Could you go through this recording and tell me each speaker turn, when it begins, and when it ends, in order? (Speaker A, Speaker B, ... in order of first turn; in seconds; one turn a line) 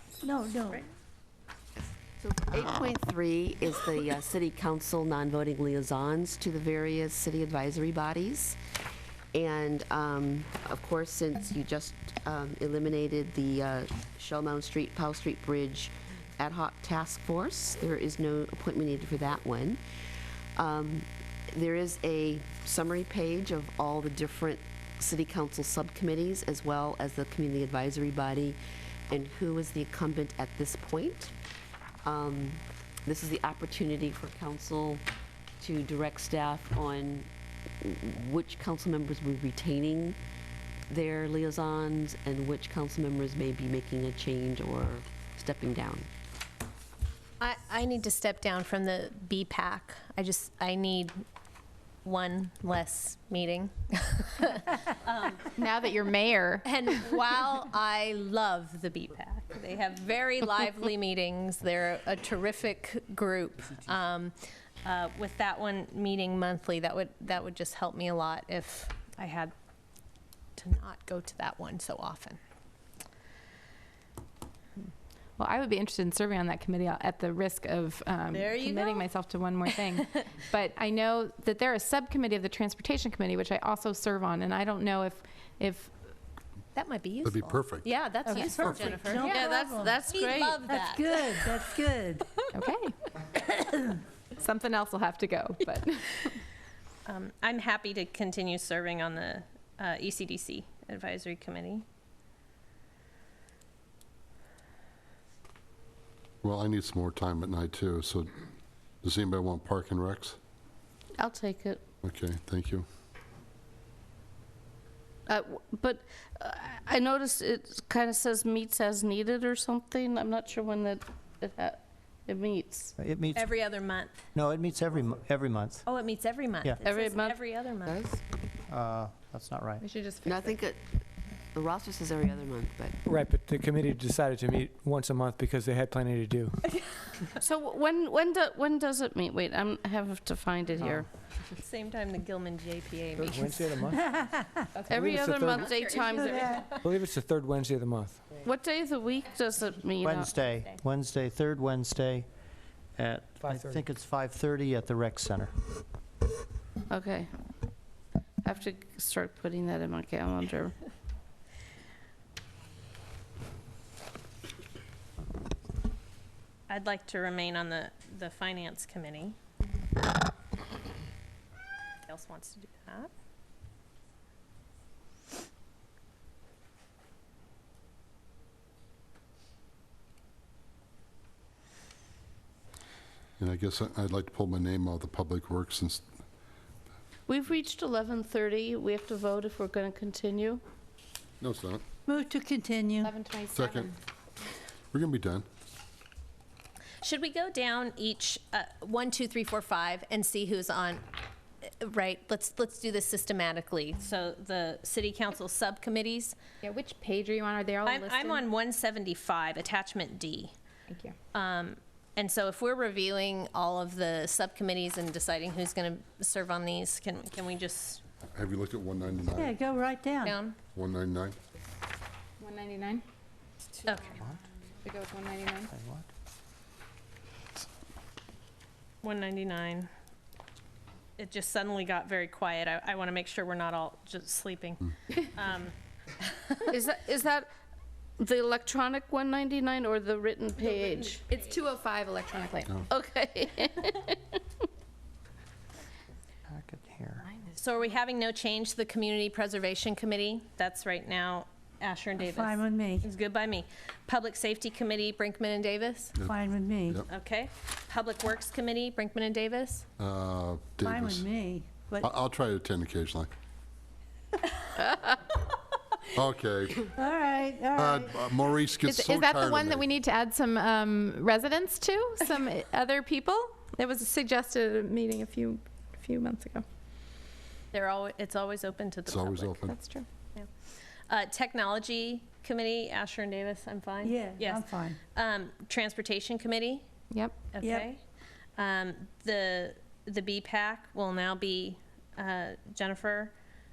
Speaker A: 0.2-0.8
Speaker B: 2.2-8.6
Speaker B: 9.3-19.8
Speaker B: 20.6-28.6
Speaker B: 29.1-31.3
Speaker B: 32.0-35.0
Speaker B: 35.6-37.3
Speaker B: 37.8-40.2
Speaker B: 40.9-46.1
Speaker C: 47.4-51.2
Speaker C: 52.0-55.6
Speaker D: 55.6-56.7
Speaker C: 56.6-69.5
Speaker C: 70.6-72.4
Speaker D: 75.4-85.9
Speaker C: 78.3-79.1
Speaker C: 86.8-91.6
Speaker E: 87.2-87.9
Speaker A: 88.2-90.0
Speaker D: 88.3-89.3
Speaker F: 89.3-90.6
Speaker A: 90.7-92.5
Speaker D: 92.5-92.9
Speaker A: 93.5-94.0
Speaker D: 94.4-96.3
Speaker C: 97.1-101.8
Speaker E: 106.4-108.4
Speaker E: 109.0-110.4
Speaker F: 111.2-111.8
Speaker E: 112.0-112.9
Speaker F: 115.3-123.0
Speaker G: 123.0-123.5
Speaker C: 123.3-124.2
Speaker G: 124.3-125.8
Speaker C: 125.8-128.2
Speaker F: 126.8-127.4
Speaker G: 128.7-129.8
Speaker D: 129.8-130.6
Speaker B: 130.2-130.9
Speaker B: 131.6-133.0
Speaker H: 133.1-136.6
Speaker F: 137.4-141.1
Speaker C: 141.5-143.8
Speaker H: 143.2-144.1
Speaker A: 143.9-144.7
Speaker F: 144.9-146.4
Speaker H: 144.9-145.7
Speaker D: 145.7-146.7
Speaker A: 146.1-146.7
Speaker C: 146.2-146.4
Speaker H: 146.8-148.3
Speaker F: 148.4-150.3
Speaker G: 150.0-152.3
Speaker G: 153.0-155.5
Speaker H: 153.4-153.8
Speaker F: 156.9-157.3
Speaker F: 158.4-160.8
Speaker C: 166.7-169.4
Speaker C: 172.1-173.1
Speaker E: 183.4-186.1
Speaker F: 187.3-190.6
Speaker E: 191.4-191.8
Speaker A: 192.1-193.1
Speaker D: 193.0-193.9
Speaker E: 193.5-193.9
Speaker E: 194.9-195.5
Speaker C: 197.0-201.0
Speaker C: 201.7-206.4
Speaker D: 206.6-208.5
Speaker C: 207.9-210.5
Speaker D: 210.9-211.2
Speaker C: 211.3-218.0
Speaker E: 218.3-219.6
Speaker A: 219.3-220.4
Speaker C: 220.2-220.6
Speaker E: 220.8-221.4
Speaker D: 222.4-223.0
Speaker C: 223.8-224.2
Speaker D: 224.8-225.7
Speaker G: 225.7-226.1
Speaker C: 229.0-229.9
Speaker C: 231.2-236.6
Speaker F: 236.7-237.5
Speaker F: 238.2-241.2
Speaker D: 240.8-242.8
Speaker F: 242.9-244.4
Speaker G: 246.5-247.3
Speaker C: 247.6-256.1
Speaker A: 252.2-253.1
Speaker A: 256.2-257.0
Speaker C: 257.1-259.9
Speaker E: 260.0-261.3
Speaker A: 260.8-262.1
Speaker E: 262.0-263.3
Speaker E: 266.1-266.9
Speaker A: 267.0-268.2
Speaker E: 267.8-269.9
Speaker D: 268.8-276.6
Speaker C: 277.7-279.7
Speaker E: 279.1-279.7
Speaker D: 279.7-280.1
Speaker C: 281.1-286.9
Speaker A: 284.0-285.0
Speaker D: 287.1-287.5
Speaker C: 287.5-288.0
Speaker A: 287.6-287.9
Speaker C: 288.6-293.3